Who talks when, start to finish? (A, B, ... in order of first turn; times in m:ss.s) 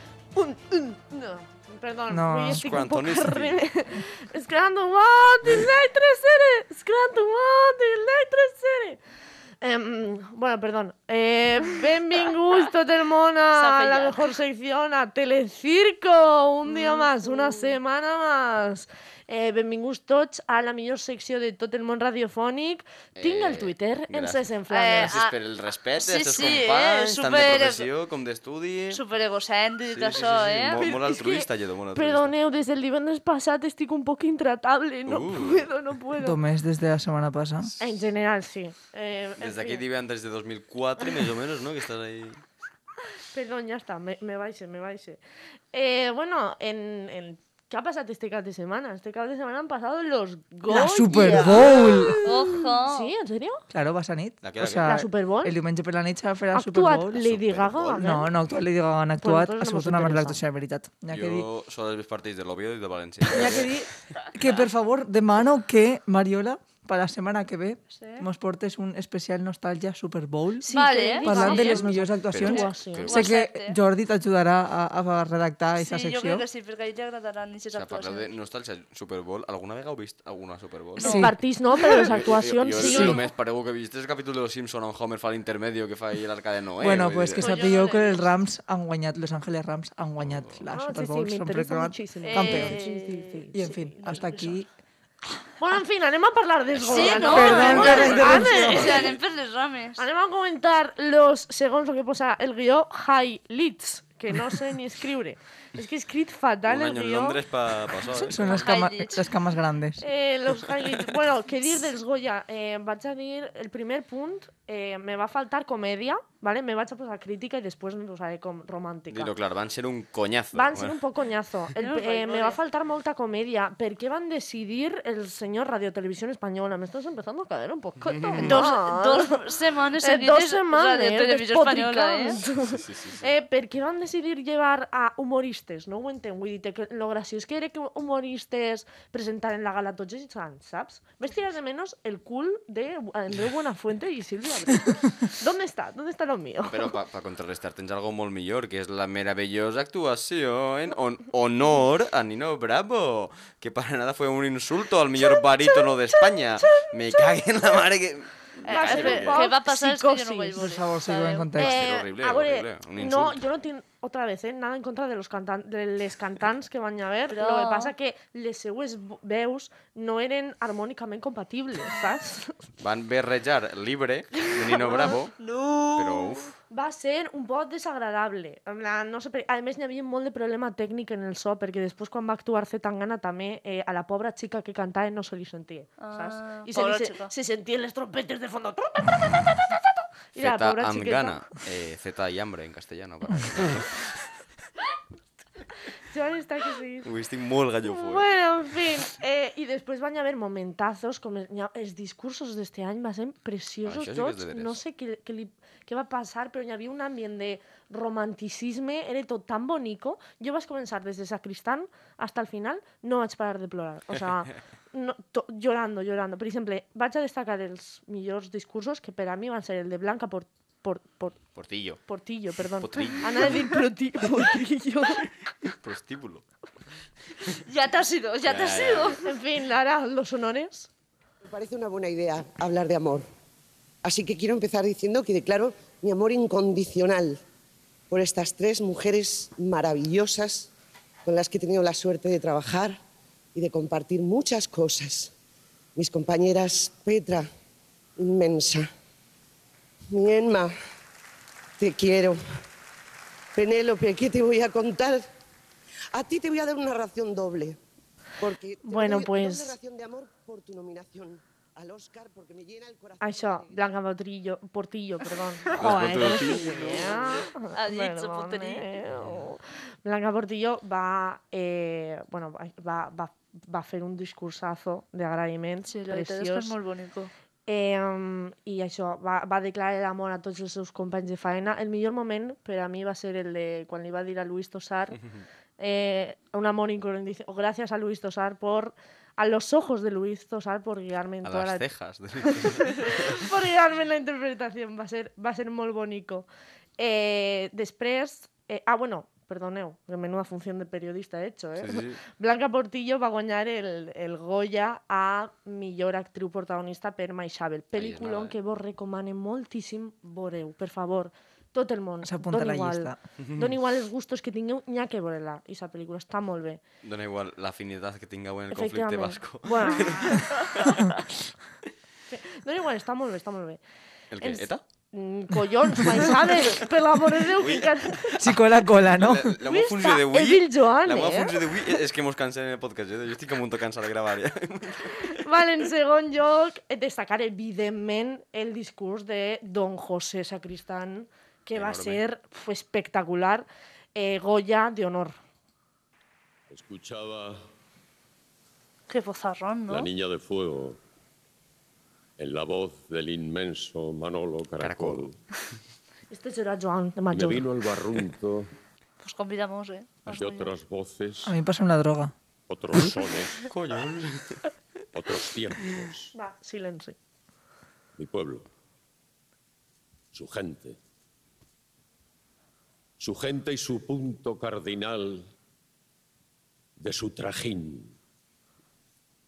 0:00.3-0:09.0 A
0:02.1-0:02.6 B
0:02.5-0:03.6 C
0:09.6-0:25.1 A
0:13.5-0:14.3 D
0:16.7-0:17.7 D
0:23.2-0:29.0 C
0:24.7-0:25.4 D
0:26.0-0:27.9 D
0:28.9-0:30.9 D
0:29.9-0:32.3 C
0:30.8-0:36.4 A
0:35.1-0:35.6 C
0:36.2-0:37.7 B
0:37.8-0:39.8 A
0:39.4-0:42.4 C
0:43.3-0:45.2 A
0:45.7-0:53.6 A
0:50.7-0:52.2 B
0:52.2-0:53.1 D
0:53.7-0:57.3 B
0:54.4-0:55.0 C
0:54.8-0:55.6 A
0:56.5-0:58.3 A
0:57.2-0:58.1 C
0:58.0-1:01.4 B
0:59.2-1:00.4 A
1:01.1-1:03.8 C
1:03.3-1:16.4 B
1:07.9-1:08.3 D
1:10.6-1:13.1 A
1:10.7-1:11.8 D
1:12.2-1:13.3 C
1:12.6-1:13.8 D
1:15.8-1:18.3 D
1:17.7-1:21.3 C
1:21.0-1:21.2 D
1:21.0-1:21.3 B
1:21.1-1:23.2 A
1:22.0-1:27.5 C
1:22.8-1:23.2 B
1:26.8-1:32.8 B
1:27.4-1:28.3 D
1:30.2-1:30.6 C
1:30.7-1:34.2 A
1:32.2-1:34.6 D
1:33.5-1:34.7 B
1:35.6-1:39.2 A
1:36.7-1:38.2 C
1:36.9-1:40.0 D
1:37.3-1:39.1 B
1:40.0-1:47.4 A
1:46.6-1:48.7 C
1:48.1-1:50.0 B
1:48.4-1:49.3 D
1:50.0-1:59.3 A
1:59.1-2:01.0 C
2:00.5-2:09.5 A
2:01.8-2:02.6 D
2:08.0-2:08.6 C
2:08.4-2:12.4 D
2:10.0-2:26.9 A
2:12.7-2:13.2 C
2:26.7-2:39.4 C
2:37.2-2:37.4 A
2:38.6-2:41.5 D
2:38.7-2:40.8 A
2:40.6-2:41.8 B
2:41.6-2:52.6 A
2:41.6-2:43.4 C
2:47.3-2:47.9 D
2:52.8-2:55.3 C
2:54.6-2:56.5 D
2:56.0-2:56.5 C
2:56.7-3:09.7 A
3:06.0-3:07.3 D
3:10.3-3:11.4 A
3:10.4-3:14.1 C
3:16.1-3:17.1 A
3:17.0-3:18.3 C
3:17.8-3:41.4 A
3:23.8-3:24.8 C
3:41.6-3:42.0 C
3:42.1-3:45.3 A
3:42.8-3:43.5 C
3:45.6-3:46.4 C
3:47.6-3:49.2 D
3:48.4-3:49.2 C
3:49.2-3:50.9 A
3:51.4-3:53.3 E
3:54.0-3:57.4 E
3:58.1-4:00.7 E
4:01.2-4:03.0 E
4:03.5-4:05.3 E
4:06.0-4:07.5 E
4:08.2-4:08.9 E
4:10.1-4:10.7 E
4:11.8-4:12.4 E
4:13.5-4:15.3 E
4:16.1-4:17.8 E
4:18.4-4:23.7 E
4:18.8-4:19.8 A
4:23.2-4:36.7 A
4:25.7-4:27.5 C
4:27.7-4:29.0 D
4:35.9-4:37.3 D
4:37.7-4:45.2 A
4:45.8-4:51.8 A
4:51.4-4:53.4 C
4:52.5-5:16.8 A
5:01.8-5:02.2 C
5:07.9-5:08.5 C
5:12.2-5:13.2 B
5:13.4-5:13.7 C
5:17.0-5:21.2 C
5:18.7-5:21.1 A
5:22.3-5:23.8 A
5:24.3-5:24.8 C
5:24.4-5:28.4 A
5:27.5-5:35.3 C
5:28.4-5:29.6 B
5:29.6-5:31.6 A
5:35.3-5:45.4 A
5:41.8-5:42.2 C
5:46.7-5:47.6 F
5:49.1-5:50.1 D
5:49.9-5:51.0 F
5:52.4-5:55.4 F
5:54.8-5:55.3 C
5:56.3-5:57.6 A
5:57.3-5:58.7 F
5:59.2-6:00.7 D
6:00.3-6:01.5 F
6:01.4-6:02.3 B
6:02.7-6:03.7 F
6:03.6-6:04.6 C
6:05.1-6:06.3 F
6:06.3-6:07.2 A
6:08.2-6:08.6 F
6:10.3-6:11.0 F
6:13.2-6:15.4 F
6:17.0-6:18.1 F